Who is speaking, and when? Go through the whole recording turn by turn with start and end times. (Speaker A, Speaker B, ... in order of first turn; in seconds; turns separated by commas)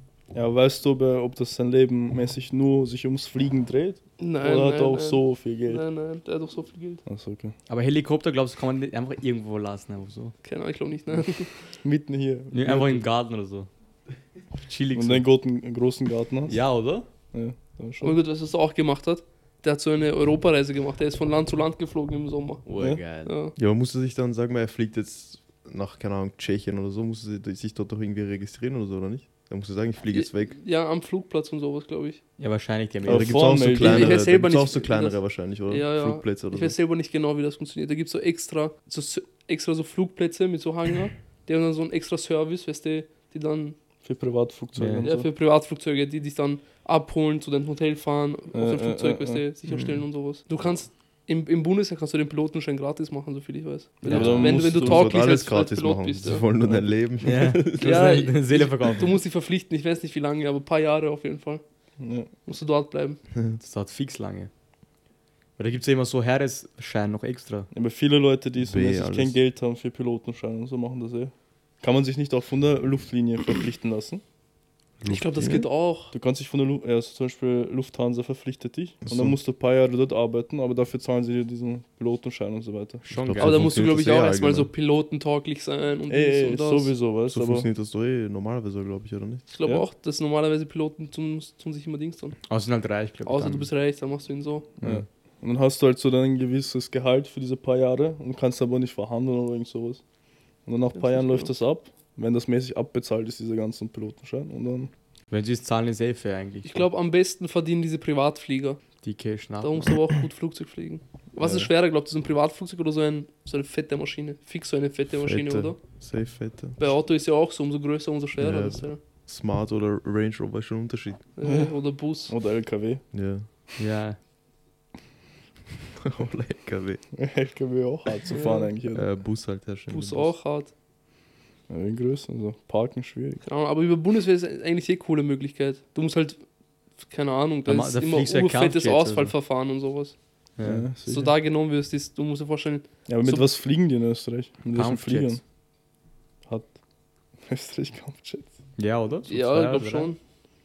Speaker A: 0.3-5.8, Speaker B: 4.2-7.0, Speaker A: 7.0-7.5, Speaker C: 7.7-10.3, Speaker B: 10.4-11.5, Speaker A: 11.8-13.1, Speaker C: 12.5-13.7, Speaker C: 14.6-15.3, Speaker A: 14.9-16.6, Speaker C: 16.5-17.1, Speaker A: 17.3-18.2, Speaker B: 18.0-22.6, Speaker C: 22.6-23.3, Speaker B: 23.2-23.5, Speaker D: 23.6-30.6, Speaker B: 30.1-32.2, Speaker C: 32.4-33.5, Speaker A: 33.1-34.2, Speaker D: 33.1-36.8, Speaker B: 33.8-43.8, Speaker A: 44.0-45.3, Speaker C: 44.8-45.1, Speaker B: 45.0-56.5, Speaker A: 48.5-49.4, Speaker D: 49.7-50.0, Speaker A: 54.0-55.2, Speaker C: 54.1-54.4, Speaker D: 54.1-57.9, Speaker C: 57.2-59.2, Speaker B: 57.8-61.6, Speaker A: 62.0-62.3, Speaker B: 62.5-63.2, Speaker C: 63.6-64.5, Speaker C: 65.6-67.7, Speaker A: 67.7-74.2, Speaker D: 68.6-69.3, Speaker C: 75.0-75.6, Speaker B: 75.1-76.1, Speaker D: 75.4-75.6, Speaker A: 76.1-83.0, Speaker D: 79.0-79.4, Speaker C: 83.0-83.7, Speaker D: 83.2-84.7, Speaker B: 83.4-86.9, Speaker A: 86.1-87.7, Speaker D: 87.3-89.5, Speaker B: 89.5-92.4, Speaker C: 92.5-93.7, Speaker B: 93.3-94.7, Speaker A: 94.8-100.0, Speaker A: 100.7-104.9, Speaker B: 101.0-101.5, Speaker C: 105.3-106.8, Speaker B: 106.6-108.8, Speaker C: 109.0-109.9, Speaker B: 109.6-115.8, Speaker A: 111.4-111.7, Speaker D: 115.1-116.8, Speaker B: 116.8-119.0, Speaker D: 118.4-121.2, Speaker B: 121.4-122.3, Speaker A: 121.4-121.7, Speaker A: 122.3-123.0, Speaker D: 123.1-123.5, Speaker C: 123.8-124.2, Speaker D: 126.0-127.0, Speaker A: 127.1-129.1, Speaker B: 128.3-128.7, Speaker D: 128.9-130.3, Speaker B: 129.9-130.7, Speaker A: 131.7-133.4, Speaker B: 133.4-136.4, Speaker B: 137.0-140.2, Speaker C: 137.7-139.3, Speaker C: 140.6-140.9, Speaker A: 140.6-141.4, Speaker B: 141.1-143.4, Speaker A: 143.1-145.4, Speaker C: 144.7-145.4, Speaker A: 147.5-148.5, Speaker C: 148.8-150.1, Speaker B: 149.3-150.2